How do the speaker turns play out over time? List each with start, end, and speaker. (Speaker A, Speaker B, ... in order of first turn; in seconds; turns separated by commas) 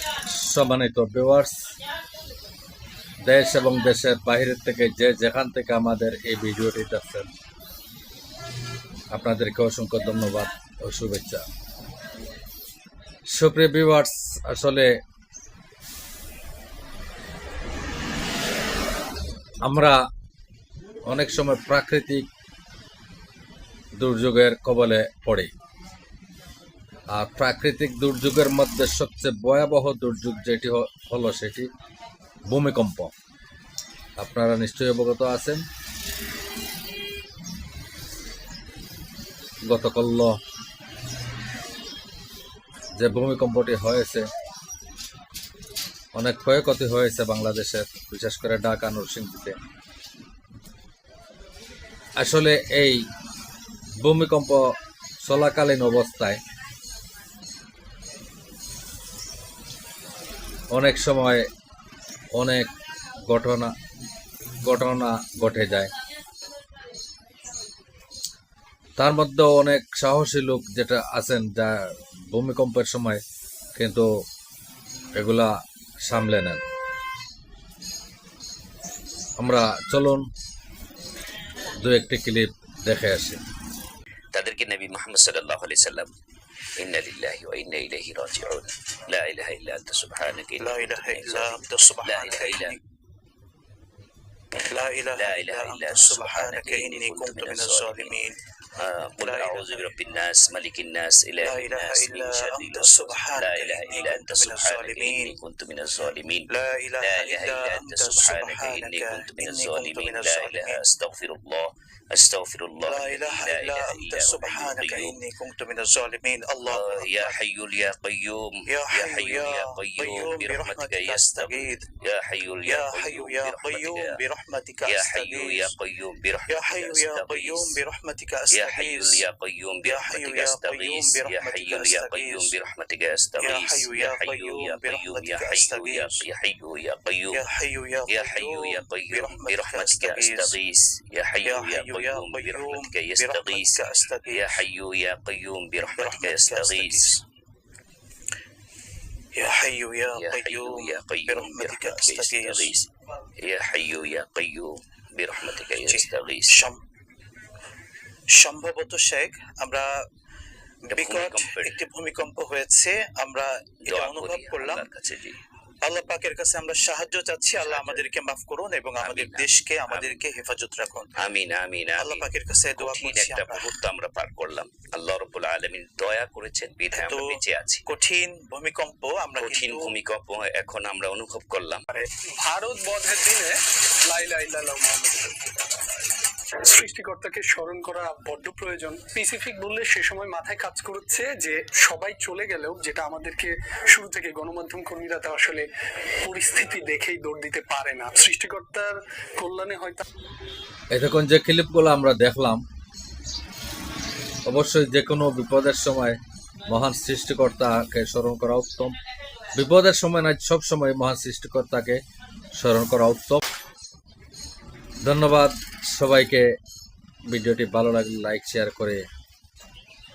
Speaker A: 0.3-1.5, Speaker A: 3.2-7.3, Speaker A: 9.1-11.4, Speaker A: 13.3-14.9, Speaker A: 19.6-20.0, Speaker A: 21.1-22.3, Speaker A: 24.0-25.5, Speaker A: 27.1-31.7, Speaker A: 32.5-33.1, Speaker A: 34.2-35.6, Speaker A: 39.6-40.4, Speaker A: 43.0-44.3, Speaker A: 46.1-49.6, Speaker A: 52.2-53.0, Speaker A: 54.0-54.7, Speaker A: 55.2-56.4, Speaker A: 60.7-61.5, Speaker A: 62.4-62.7, Speaker A: 63.2-63.7, Speaker A: 64.6-65.9, Speaker A: 69.0-73.2, Speaker A: 73.8-74.1, Speaker A: 75.2-75.5, Speaker A: 76.0-76.6, Speaker A: 79.4-80.3, Speaker A: 81.8-83.4, Speaker B: 84.3-86.1, Speaker B: 86.8-92.8, Speaker C: 90.6-92.8, Speaker C: 94.6-98.4, Speaker B: 95.1-98.2, Speaker B: 98.8-106.5, Speaker C: 99.2-99.9, Speaker C: 101.4-105.3, Speaker C: 106.5-110.8, Speaker B: 107.0-115.2, Speaker C: 112.8-117.4, Speaker B: 116.7-124.2, Speaker C: 118.7-121.9, Speaker C: 122.7-125.7, Speaker B: 124.8-127.8, Speaker C: 126.5-129.2, Speaker B: 128.5-137.4, Speaker C: 129.8-132.5, Speaker C: 133.4-136.2, Speaker C: 137.3-140.6, Speaker B: 138.1-147.1, Speaker C: 141.4-144.6, Speaker C: 146.0-147.2, Speaker C: 149.3-152.8, Speaker B: 150.1-152.8, Speaker B: 153.4-156.6, Speaker C: 155.7-156.8, Speaker C: 158.3-160.0, Speaker C: 160.8-164.8, Speaker B: 160.9-161.8, Speaker B: 163.8-165.4, Speaker C: 165.8-171.1, Speaker B: 167.6-168.1, Speaker B: 169.0-170.2, Speaker B: 171.2-177.8, Speaker C: 172.0-173.7, Speaker C: 176.9-179.9, Speaker B: 179.4-181.8, Speaker D: 181.9-185.3, Speaker D: 186.6-195.7, Speaker D: 196.2-200.0, Speaker A: 200.9-202.6, Speaker A: 204.5-206.2, Speaker A: 206.7-209.0, Speaker A: 209.6-212.0, Speaker A: 212.6-213.4, Speaker A: 215.0-216.5, Speaker A: 217.3-219.0